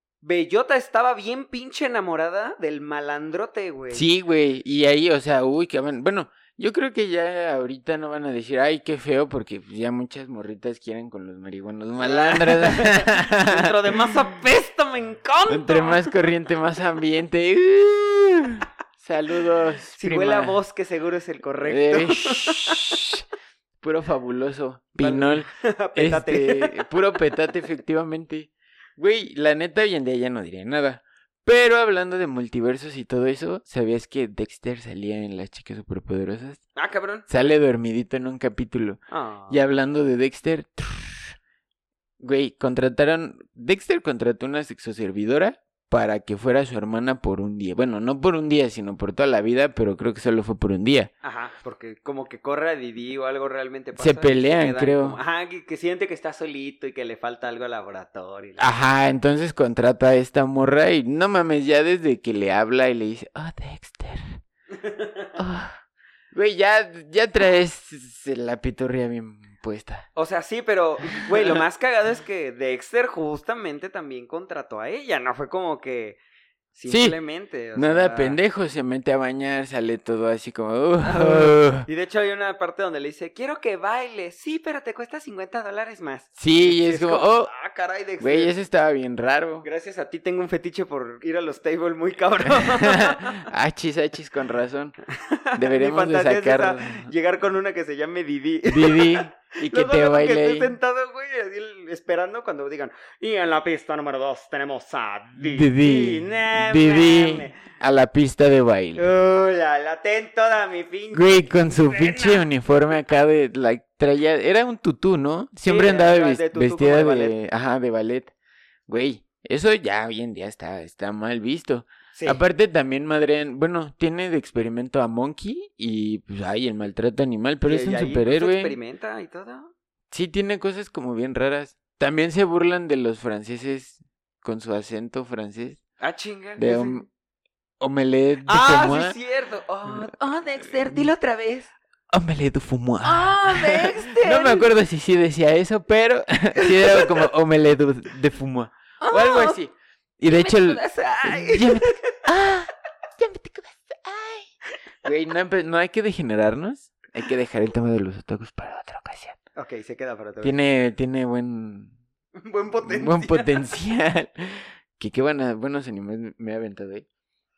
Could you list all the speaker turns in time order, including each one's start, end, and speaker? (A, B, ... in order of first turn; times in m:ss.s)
0:00.2-0:04.1 A
0:03.9-0:13.7 B
0:12.0-0:16.1 A
0:15.5-0:20.6 B
0:20.0-0:23.0 A
0:21.7-0:23.2 B
0:23.8-0:36.6 B
0:25.0-0:26.9 A
0:36.8-0:37.3 A
0:37.3-0:39.0 B
0:39.1-0:39.6 A
0:39.5-0:41.4 B
0:42.2-0:51.1 B
0:51.2-0:58.7 A
0:54.0-0:55.2 B
0:58.6-1:04.4 B
1:04.7-1:05.3 A
1:05.4-1:05.8 B
1:06.3-1:10.1 B
1:10.2-1:16.2 A
1:16.8-1:18.4 A
1:16.9-1:17.2 B
1:17.8-1:21.9 B
1:21.0-1:28.5 A
1:26.4-1:27.5 B
1:28.2-1:29.7 B
1:29.6-1:33.4 A
1:32.6-1:35.0 B
1:35.2-1:47.6 A
1:35.6-1:37.1 B
1:38.7-1:40.8 B
1:45.4-1:49.1 B
1:49.0-1:52.4 A
1:51.1-1:58.3 B
1:55.6-1:57.4 A
1:58.9-2:08.8 B
2:02.2-2:02.4 A
2:07.6-2:09.7 A
2:10.1-2:15.8 B
2:16.0-2:17.0 A
2:16.6-2:17.1 B
2:17.8-2:19.2 B
2:18.5-2:21.7 A
2:22.1-2:34.5 B
2:23.0-2:24.7 A
2:26.6-2:27.2 A
2:29.0-2:29.6 A
2:30.3-2:32.2 A
2:35.0-2:39.4 B
2:39.6-2:40.6 A
2:40.4-2:42.0 B
2:42.4-2:43.6 A
2:42.8-2:47.1 B